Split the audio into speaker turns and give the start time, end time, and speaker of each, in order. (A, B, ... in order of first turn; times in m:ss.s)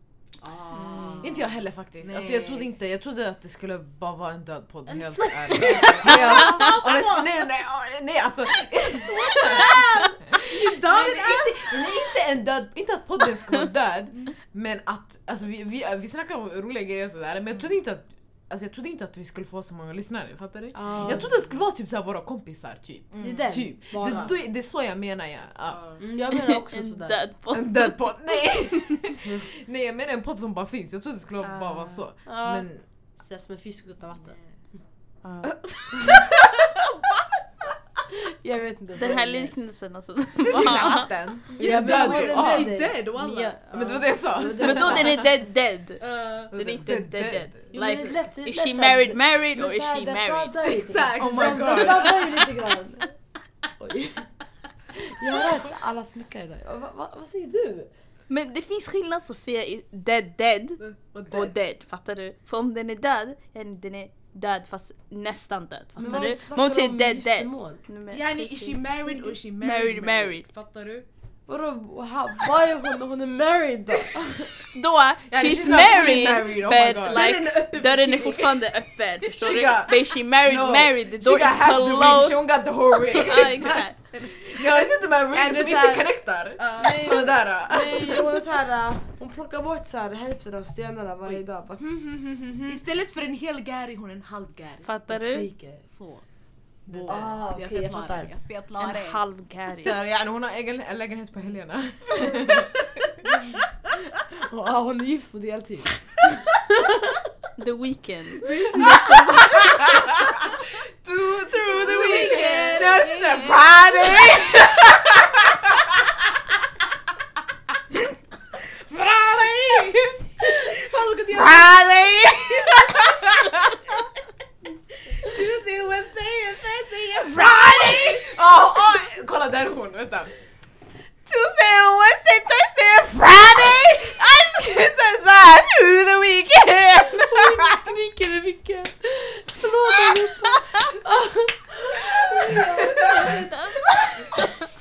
0:00.4-0:02.7 A
0:00.7-0:01.4 B
0:01.2-0:25.8 C
0:04.9-0:07.4 A
0:05.5-0:05.8 B
0:09.1-0:12.0 A
0:20.7-0:21.4 B
0:23.1-0:24.3 A
0:23.2-0:24.3 B
0:25.7-0:26.0 A
0:26.0-0:27.2 B
0:26.3-0:28.5 D
0:27.5-0:32.8 C
0:29.2-0:29.5 B
0:31.4-0:32.0 D
0:32.2-0:34.4 B
0:34.2-0:34.6 A
0:35.2-0:35.6 D
0:38.3-0:39.5 B
0:39.0-0:41.1 D
0:40.4-0:42.8 C
0:40.5-0:45.0 A
0:41.6-0:43.6 B
0:43.7-0:45.3 C
0:44.3-0:45.2 B
0:44.6-0:50.5 D
0:46.0-0:46.6 A
0:46.5-0:47.6 C
0:47.7-0:53.1 B
0:50.6-0:52.5 A
0:51.2-0:52.3 C
0:53.8-0:54.3 B
0:54.9-0:57.9 B
0:58.3-1:10.4 D
1:00.8-1:01.5 A
1:06.0-1:07.8 B
1:08.1-1:11.0 A
1:11.5-1:14.5 B
1:14.7-1:24.0 D
1:15.3-1:17.3 C
1:17.1-1:18.7 A
1:19.4-1:28.3 C
1:23.8-1:24.9 A
1:25.3-1:26.1 B
1:26.6-1:27.4 A
1:26.8-1:32.8 B
1:32.6-1:34.9 A
1:34.8-1:35.5 D
1:35.1-1:35.8 B
1:35.8-1:36.2 A
1:36.8-1:39.2 A
1:36.9-1:37.4 C
1:37.0-1:38.3 B
1:38.8-1:40.0 D
1:39.7-1:43.3 C
1:44.4-1:47.3 B
1:47.6-1:50.0 D
1:48.4-1:49.4 A
1:49.4-1:50.3 C
1:51.0-1:55.9 C
1:51.7-1:54.2 A
1:52.1-1:52.9 B
1:58.6-2:03.9 C
2:05.2-2:10.3 C
2:11.2-2:17.8 C
2:17.1-2:24.5 B
2:22.5-2:23.3 C